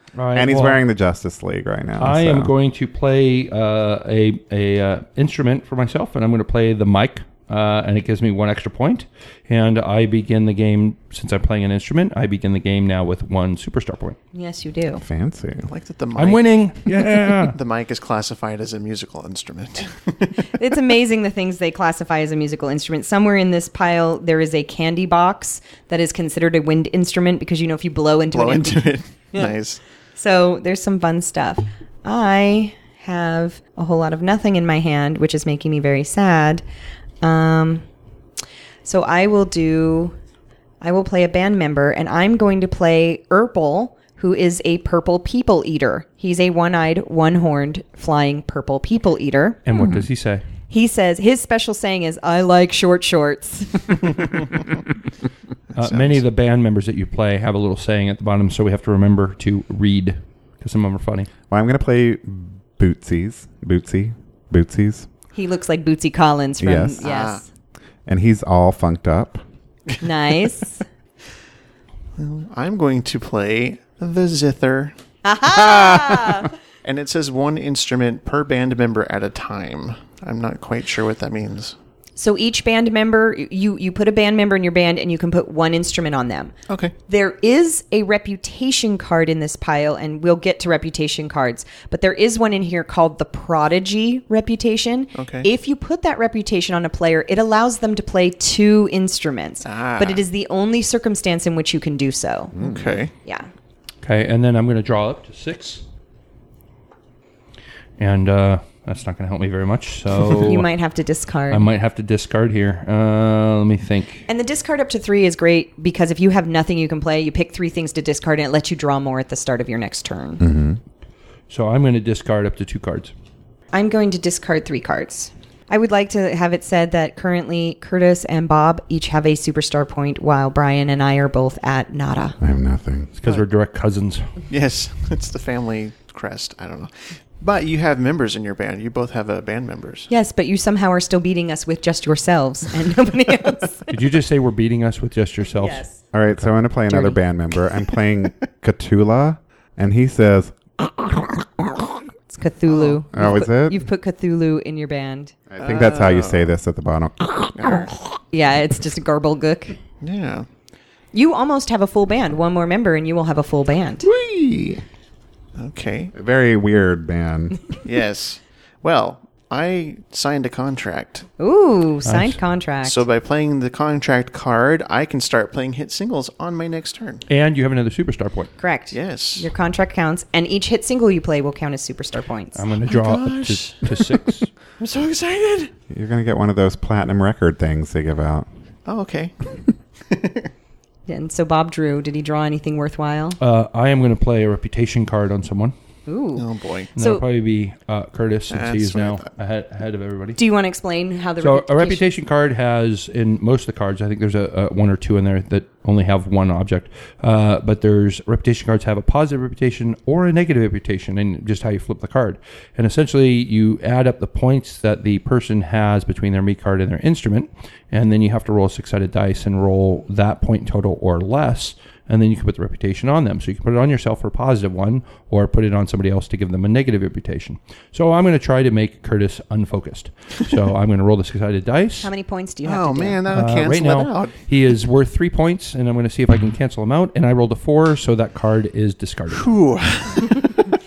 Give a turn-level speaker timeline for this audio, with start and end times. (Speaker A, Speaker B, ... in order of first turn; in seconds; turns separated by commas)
Speaker A: 0.2-0.8, Speaker B: 0.3-2.5, Speaker A: 2.0-14.2, Speaker C: 14.3-15.0, Speaker B: 15.0-15.7, Speaker D: 15.7-16.4, Speaker A: 16.2-17.6, Speaker D: 17.5-20.4, Speaker C: 20.5-29.5, Speaker D: 28.3-29.8, Speaker C: 30.2-36.6, Speaker C: 37.2-37.9, Speaker C: 38.8-40.1, Speaker C: 40.8-49.6, Speaker A: 49.7-50.4, Speaker B: 49.8-50.0, Speaker C: 50.7-54.1, Speaker A: 55.8-61.3, Speaker D: 55.8-56.2, Speaker B: 61.5-65.1, Speaker C: 65.3-67.4, Speaker B: 66.6-67.1, Speaker D: 67.0-67.4, Speaker B: 68.1-69.4, Speaker C: 70.0-70.8, Speaker D: 72.2-75.0, Speaker C: 75.2-76.5, Speaker D: 75.5-81.8, Speaker C: 82.2-86.5, Speaker D: 86.7-86.9, Speaker C: 87.1-102.5, Speaker D: 95.1-95.5, Speaker D: 99.6-100.2, Speaker D: 102.5-103.1, Speaker B: 102.6-102.9, Speaker C: 103.2-103.5, Speaker A: 104.0-105.8, Speaker A: 108.0-110.7, Speaker C: 110.4-111.7, Speaker A: 111.5-114.3, Speaker C: 114.3-120.4, Speaker B: 120.4-120.8, Speaker A: 121.5-123.1, Speaker C: 123.7-132.4, Speaker B: 132.4-133.1, Speaker A: 133.2-134.3, Speaker D: 134.5-140.1, Speaker C: 140.1-143.9, Speaker A: 143.9-145.8, Speaker C: 145.6-146.0, Speaker B: 146.1-152.0, Speaker C: 146.9-147.2, Speaker C: 152.3-155.5, Speaker D: 152.7-153.0, Speaker B: 153.1-153.8, Speaker B: 155.5-158.0, Speaker D: 155.6-156.5, Speaker D: 157.5-157.9, Speaker C: 158.3-159.8, Speaker D: 160.0-160.5, Speaker C: 161.1-164.1, Speaker B: 164.0-164.8, Speaker D: 165.6-166.1, Speaker B: 166.1-167.7, Speaker D: 167.8-171.3, Speaker C: 171.4-173.0, Speaker A: 172.1-172.4, Speaker D: 172.8-177.2, Speaker A: 177.3-178.5, Speaker C: 178.6-182.6, Speaker D: 178.9-179.5, Speaker A: 182.5-184.5, Speaker D: 182.9-184.2, Speaker D: 184.8-185.7, Speaker B: 185.9-188.5, Speaker D: 188.8-189.5, Speaker D: 190.1-190.5, Speaker C: 191.1-193.4, Speaker A: 193.4-195.8, Speaker C: 196.1-197.2, Speaker D: 196.4-196.9, Speaker A: 197.0-200.4, Speaker D: 198.5-199.3, Speaker C: 200.4-202.1, Speaker A: 201.4-232.1, Speaker C: 232.0-233.2, Speaker D: 232.6-234.3, Speaker A: 233.3-239.5, Speaker D: 239.3-240.5